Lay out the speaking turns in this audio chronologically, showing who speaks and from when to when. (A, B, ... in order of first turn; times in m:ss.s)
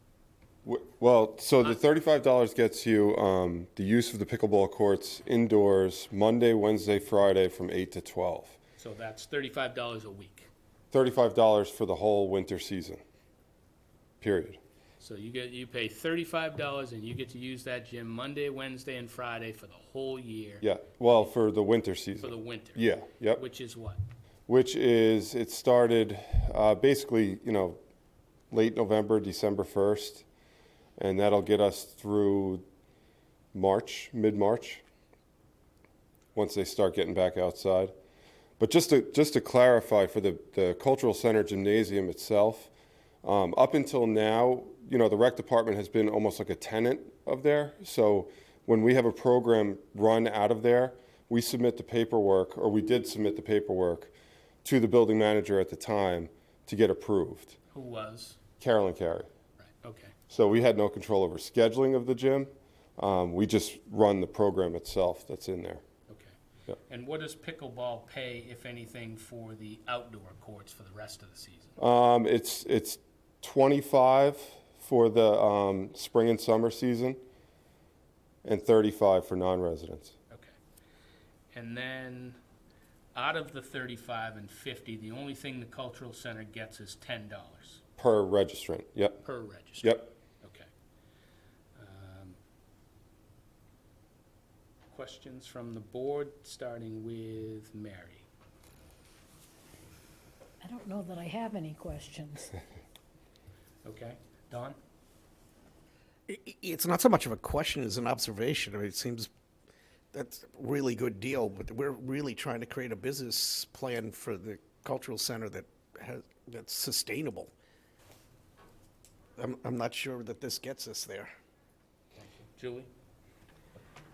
0:00.6-0:08.6 A
0:08.8-0:10.5 B
0:10.9-0:13.0 A
0:14.2-0:14.6 A
0:15.0-0:20.7 B
0:20.6-0:23.4 A
0:22.2-0:24.0 B
0:24.5-0:27.8 A
0:28.5-0:30.2 A
0:31.0-0:32.6 A
0:33.5-0:34.8 A
0:36.3-0:37.9 A
0:38.6-0:42.7 A
0:43.2-0:57.6 A
0:57.7-0:58.4 B
0:58.6-0:59.3 A
0:59.6-1:00.2 B
1:00.3-1:05.8 A
1:06.1-1:06.3 B
1:06.9-1:11.8 B
1:11.8-1:17.2 A
1:18.4-1:20.2 A
1:20.3-1:20.5 B
1:21.5-1:22.4 B
1:23.1-1:27.8 B
1:28.0-1:29.2 A
1:29.2-1:30.7 B
1:29.8-1:30.1 A
1:31.8-1:32.4 B
1:34.9-1:38.2 B
1:40.6-1:42.6 C
1:43.8-1:44.8 B
1:46.3-1:49.3 D
1:50.1-1:57.5 D
1:59.4-2:01.3 D
2:02.1-2:02.9 B